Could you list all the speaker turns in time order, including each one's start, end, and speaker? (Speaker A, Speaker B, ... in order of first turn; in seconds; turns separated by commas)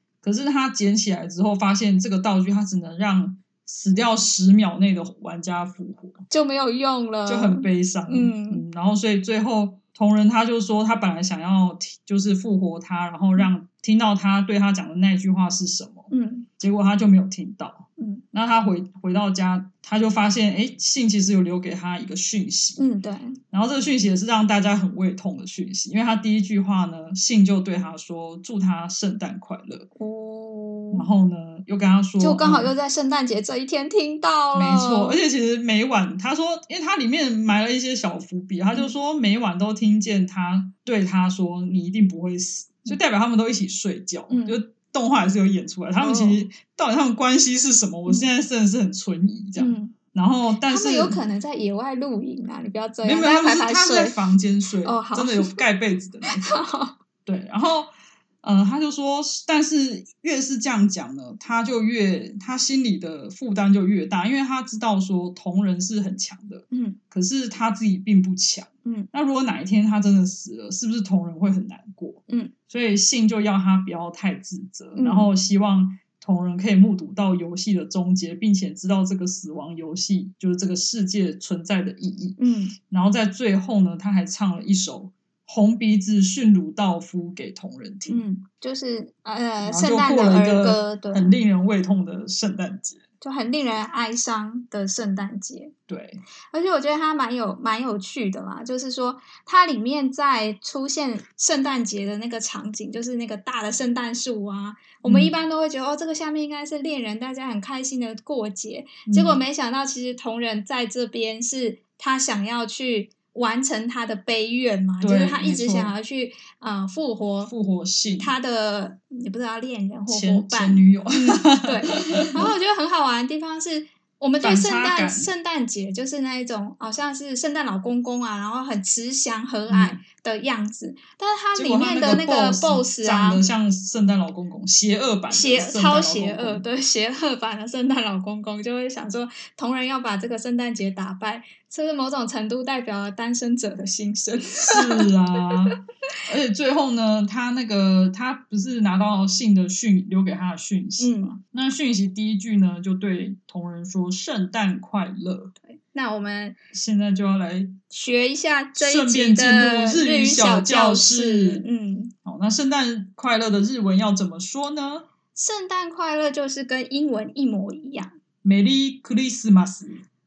Speaker A: 0.2-6.2, Speaker B: 6.3-8.6, Speaker A: 7.3-22.8, Speaker B: 16.1-16.5, Speaker B: 18.0-18.2, Speaker B: 22.8-23.4, Speaker A: 23.5-29.9, Speaker B: 30.0-31.1, Speaker A: 30.9-32.7, Speaker B: 32.2-35.2, Speaker A: 34.5-51.2, Speaker B: 44.3-44.6, Speaker B: 46.0-46.4, Speaker B: 49.6-50.0, Speaker B: 50.6-54.2, Speaker A: 53.0-56.6, Speaker B: 54.8-55.6, Speaker B: 56.3-57.0, Speaker A: 57.3-88.3, Speaker B: 66.7-67.0, Speaker B: 72.3-72.5, Speaker B: 75.0-75.3, Speaker B: 82.4-82.8, Speaker B: 88.1-91.4, Speaker A: 89.6-93.0, Speaker B: 93.2-95.7, Speaker A: 95.9-96.2, Speaker B: 96.5-117.5, Speaker A: 105.0-105.3, Speaker A: 109.1-109.4, Speaker A: 115.0-115.9, Speaker A: 117.5-118.3, Speaker B: 118.2-133.4, Speaker A: 120.1-122.5, Speaker A: 124.4-125.3, Speaker A: 129.7-130.0, Speaker A: 131.6-136.7, Speaker B: 135.3-145.1, Speaker A: 144.7-155.5, Speaker B: 151.0-151.4, Speaker B: 155.6-156.6, Speaker A: 156.7-157.8, Speaker B: 157.9-162.1, Speaker A: 158.8-161.7, Speaker A: 162.2-165.1, Speaker B: 165.3-168.2, Speaker A: 168.4-170.0